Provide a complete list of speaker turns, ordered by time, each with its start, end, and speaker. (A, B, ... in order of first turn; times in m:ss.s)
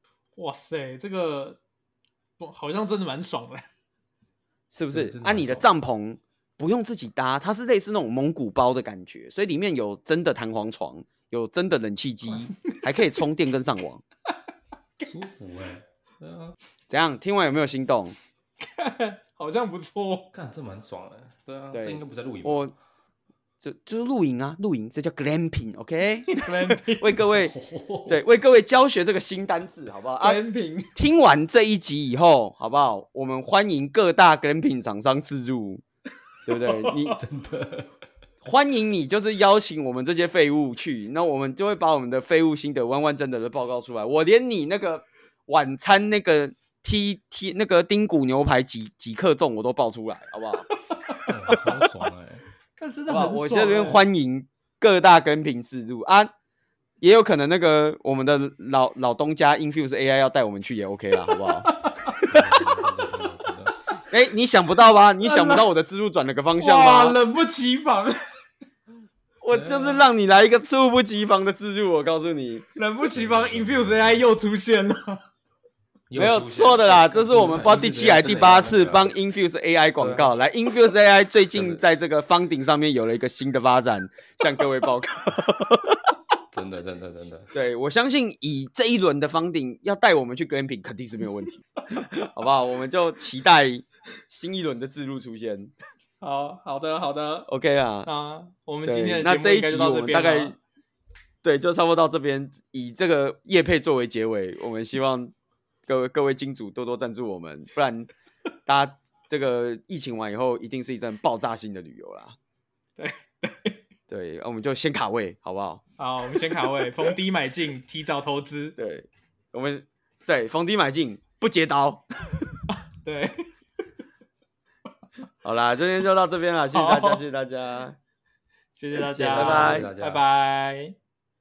0:00.4-0:01.6 A
0:02.4-0:03.6 A
0:04.7-0:14.0 B
0:04.9-0:05.7 C
0:15.0-0:16.6 C
0:16.9-0:18.2 B
0:18.6-0:20.3 A
0:20.3-0:22.7 C
0:21.7-0:22.7 B
0:23.6-0:27.5 B
0:26.3-0:27.2 A
0:27.2-0:28.2 C
0:28.1-0:30.4 B
0:30.2-0:30.9 A
0:30.9-0:35.8 B
0:36.4-0:37.2 B
0:36.6-0:37.2 A
0:37.2-0:37.9 C
0:38.4-0:50.6 B
0:50.7-0:51.8 A
0:51.1-0:52.4 C
0:52.8-0:54.0 A
0:53.1-0:56.3 B
0:57.0-1:01.7 B
1:01.3-1:02.8 A
1:02.3-1:03.7 C
1:04.1-1:07.2 B
1:05.2-1:05.7 A
1:06.6-1:08.2 A
1:09.4-1:12.6 B
1:09.5-1:10.0 C
1:12.7-1:15.2 A
1:13.1-1:14.2 C
1:16.1-1:19.1 C
1:16.2-1:26.1 B
1:20.0-1:20.3 C
1:21.6-1:21.8 C
1:26.5-1:27.5 C
1:27.5-1:35.7 B
1:36.2-1:37.5 A
1:37.5-1:38.1 B
1:38.0-1:40.5 A
1:38.8-1:40.6 B
1:41.4-1:45.3 B
1:45.8-1:48.1 B
1:48.6-1:52.4 B
1:53.0-1:53.8 A
1:54.1-1:55.8 B
1:56.0-1:58.7 A
1:58.8-2:02.6 B
2:02.7-2:03.5 A
2:05.4-2:08.0 B
2:06.7-2:07.2 A
2:08.7-2:10.9 A
2:09.1-2:09.9 B
2:09.2-2:10.2 C